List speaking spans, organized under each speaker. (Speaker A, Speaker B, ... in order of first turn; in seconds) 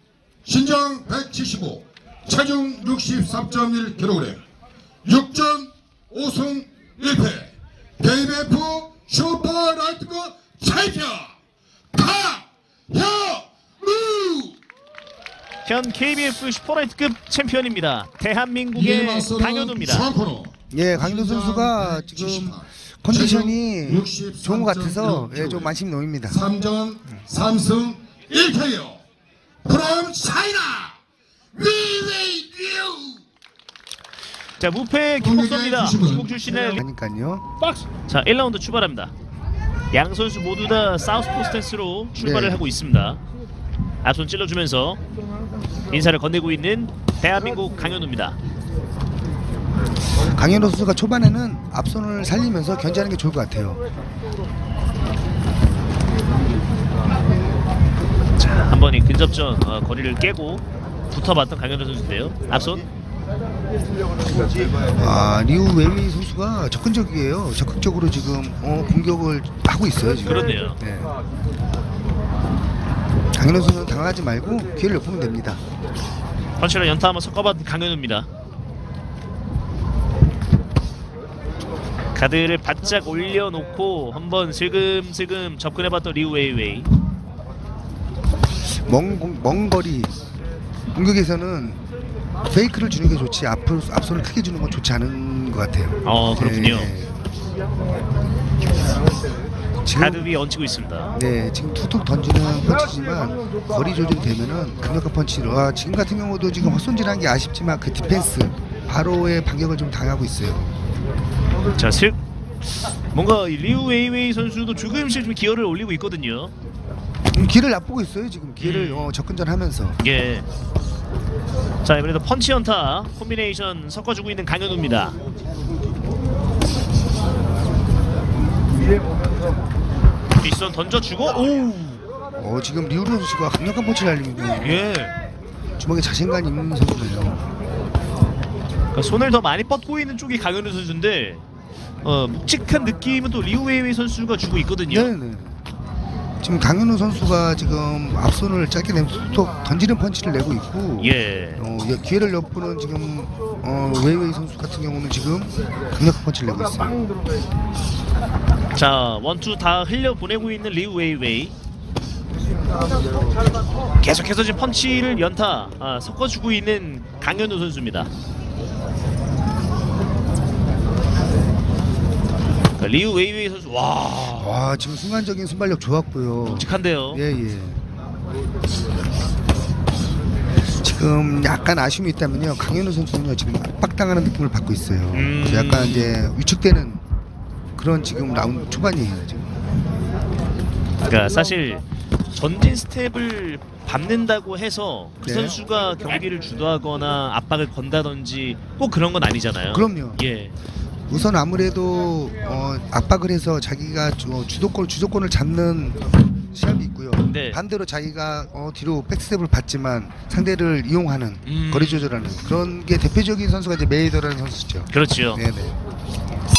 Speaker A: 0.5-4.4, 5.0-11.3, 11.9-14.6, 18.7-25.7, 26.3-29.0, 29.6-31.0, 31.5-33.2, 35.2-36.6
Speaker B: 15.7-20.1, 34.6-36.8, 38.1-39.1, 39.9-43.2, 44.0-45.0, 45.9-48.4, 58.4-62.9, 70.2-70.8, 76.6-78.3, 82.2-86.9, 96.0-96.9, 99.9-101.1, 111.8-112.2, 113.1-116.5, 118.6-119.1, 120.0-120.5, 121.8-125.2, 130.4-132.0, 134.6-135.1, 138.9-141.4, 142.0-145.1, 151.0-151.6, 158.8-161.5, 164.0-168.1, 172.8-174.6, 176.4-177.2, 185.1-186.2, 191.0-200.5, 207.3-207.6, 211.4-212.2, 214.9-215.4
Speaker C: 20.7-26.4, 36.6-37.5, 42.2-42.6, 50.2-53.8, 65.0-71.1, 73.3-75.6, 88.7-90.2, 90.9-91.8, 92.5-97.1, 99.8-100.2, 101.1-110.8, 117.3-120.0, 132.4-134.8, 135.8-137.4, 144.9-145.6, 146.4-157.0, 174.4-177.8, 180.8-187.0, 187.8-189.6, 195.2-195.6, 199.7-200.2, 201.1-215.8